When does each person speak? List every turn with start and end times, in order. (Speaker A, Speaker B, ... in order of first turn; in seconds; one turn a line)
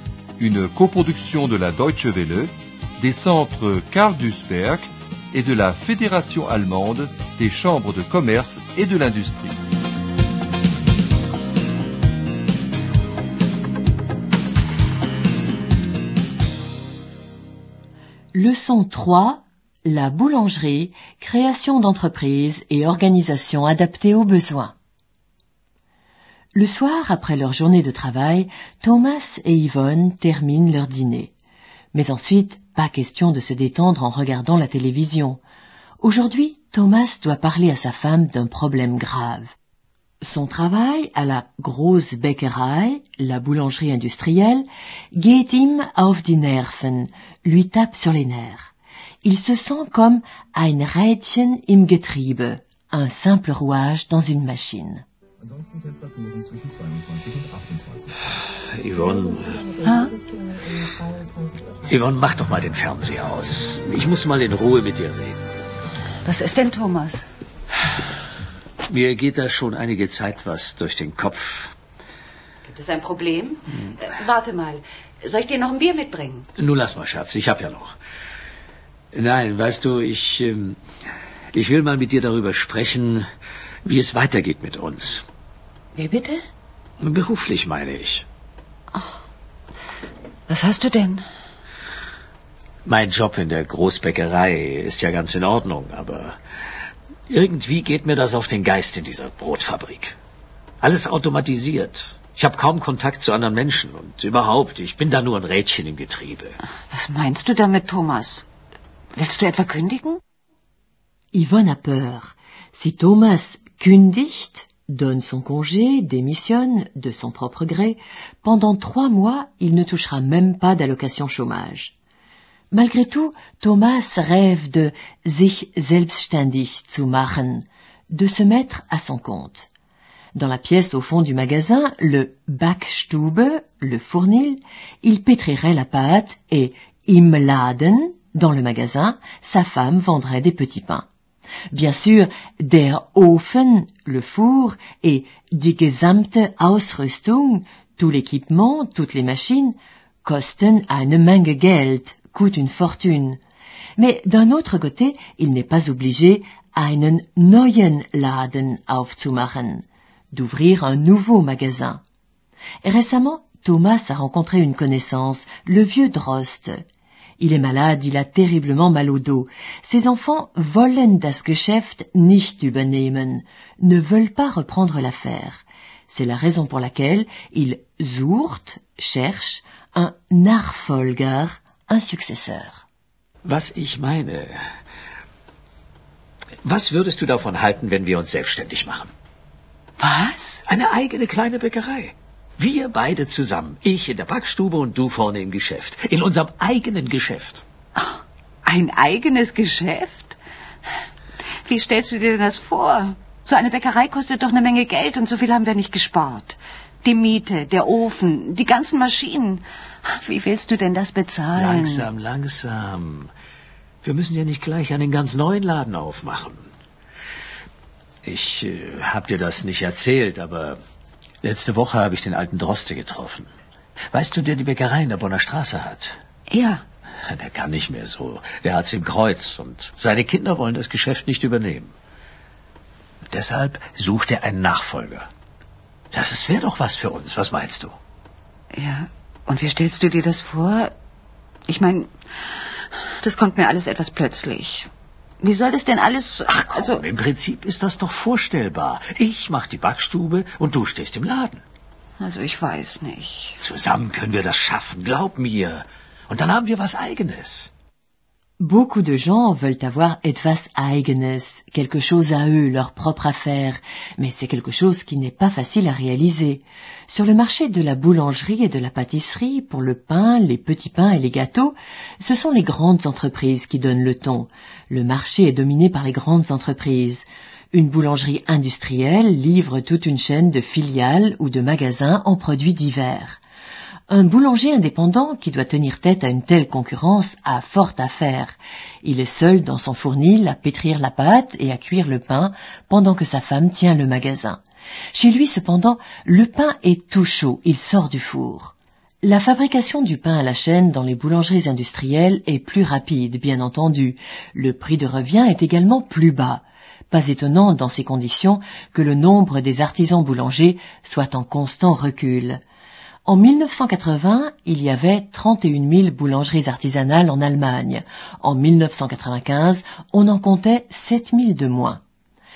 Speaker A: 0.4-9.6
Speaker B: 18.3-24.7
Speaker B: 26.5-31.3
Speaker B: 31.9-35.4
Speaker B: 36.0-39.5
Speaker B: 40.2-48.7
Speaker B: 49.2-55.0
Speaker C: 55.4-58.2
Speaker D: 58.7-59.7
Speaker E: 59.8-60.2
Speaker D: 61.8-65.4
Speaker E: 66.2-67.2
Speaker D: 68.8-71.7
Speaker E: 72.6-76.5
Speaker D: 76.5-77.9
Speaker D: 79.1-80.8
Speaker D: 81.5-83.3
Speaker D: 83.8-85.2
Speaker E: 85.9-86.4
Speaker D: 87.0-88.2
Speaker E: 90.5-91.2
Speaker D: 92.8-96.3
Speaker D: 97.3-100.1
Speaker D: 100.8-106.6
Speaker E: 106.9-108.5
Speaker E: 109.1-110.2
Speaker B: 111.3-121.9
Speaker B: 122.7-129.7
Speaker B: 130.3-141.1
Speaker B: 141.7-153.4
Speaker B: 154.0-162.0
Speaker B: 162.8-166.8
Speaker B: 167.4-182.8
Speaker D: 183.4-184.5
Speaker D: 186.6-189.1
Speaker E: 190.0-190.6
Speaker D: 190.6-197.6
Speaker E: 197.9-200.4
Speaker E: 201.6-212.1
Speaker D: 211.5-213.3
Speaker D: 214.0-216.7
Speaker D: 218.2-220.8
Speaker D: 221.4-223.5
Speaker D: 224.1-226.2
Speaker E: 226.5-226.8
Speaker D: 227.2-231.9
Speaker D: 233.3-235.3
Speaker D: 236.1-237.9
Speaker E: 238.7-240.9
Speaker E: 241.7-242.1
Speaker E: 242.9-244.9
Speaker E: 245.4-247.0
Speaker D: 246.5-251.6
Speaker E: 252.2-253.6
Speaker D: 253.6-257.7
Speaker B: 258.6-283.4
Speaker B: 284.1-294.6
Speaker B: 295.1-312.6
Speaker B: 313.2-322.0